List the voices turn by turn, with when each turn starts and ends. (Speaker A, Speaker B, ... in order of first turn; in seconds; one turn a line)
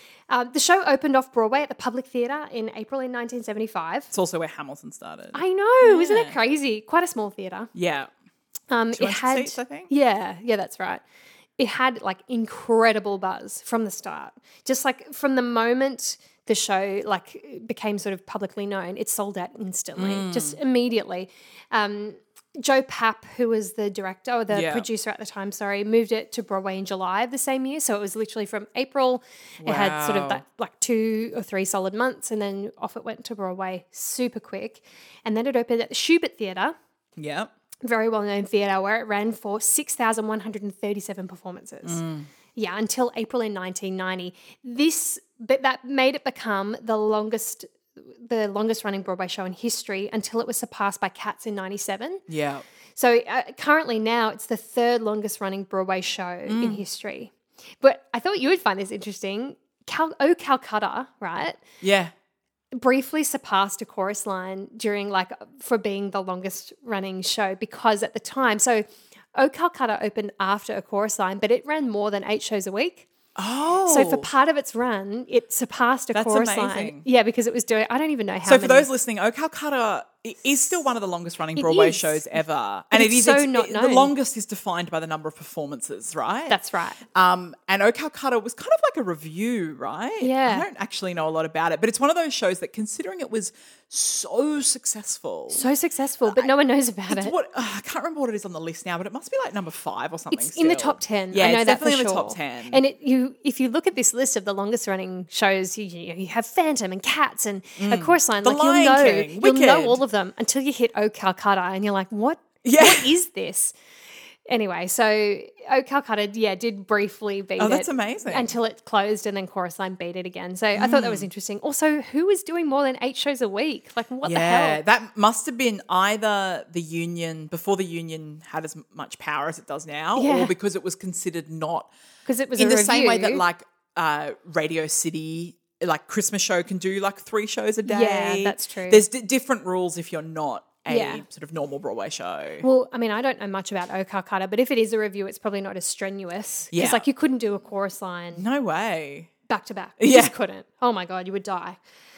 Speaker A: 0.3-4.1
Speaker B: 4.1-6.4
Speaker A: 5.3-7.7
Speaker B: 7.7-8.1
Speaker A: 8.7-11.0
Speaker B: 8.9-9.9
Speaker A: 11.6-36.7
Speaker B: 20.0-20.6
Speaker B: 24.5-24.9
Speaker B: 29.6-30.4
Speaker B: 37.2-37.5
Speaker A: 37.8-42.0
Speaker B: 41.8-42.3
Speaker A: 42.5-52.2
Speaker B: 52.3-52.6
Speaker A: 53.0-61.6
Speaker B: 56.5-56.8
Speaker B: 61.8-62.1
Speaker A: 62.7-68.8
Speaker A: 69.4-73.1
Speaker B: 73.4-74.3
Speaker A: 73.9-78.9
Speaker B: 76.1-77.0
Speaker B: 78.5-86.6
Speaker A: 81.6-82.3
Speaker A: 82.9-84.1
Speaker A: 86.5-87.0
Speaker B: 87.1-95.7
Speaker A: 90.2-90.7
Speaker A: 95.5-97.3
Speaker B: 96.3-96.5
Speaker B: 97.1-102.8
Speaker A: 100.3-113.7
Speaker B: 107.8-110.0
Speaker B: 112.6-113.1
Speaker A: 114.5-124.8
Speaker B: 117.6-118.5
Speaker B: 120.8-121.3
Speaker B: 124.2-131.9
Speaker A: 130.2-130.5
Speaker A: 132.3-133.4
Speaker B: 132.6-142.7
Speaker A: 137.8-139.0
Speaker A: 140.9-141.2
Speaker A: 142.6-148.4
Speaker B: 146.7-147.0
Speaker B: 148.4-149.3
Speaker A: 149.5-151.8
Speaker B: 150.0-150.3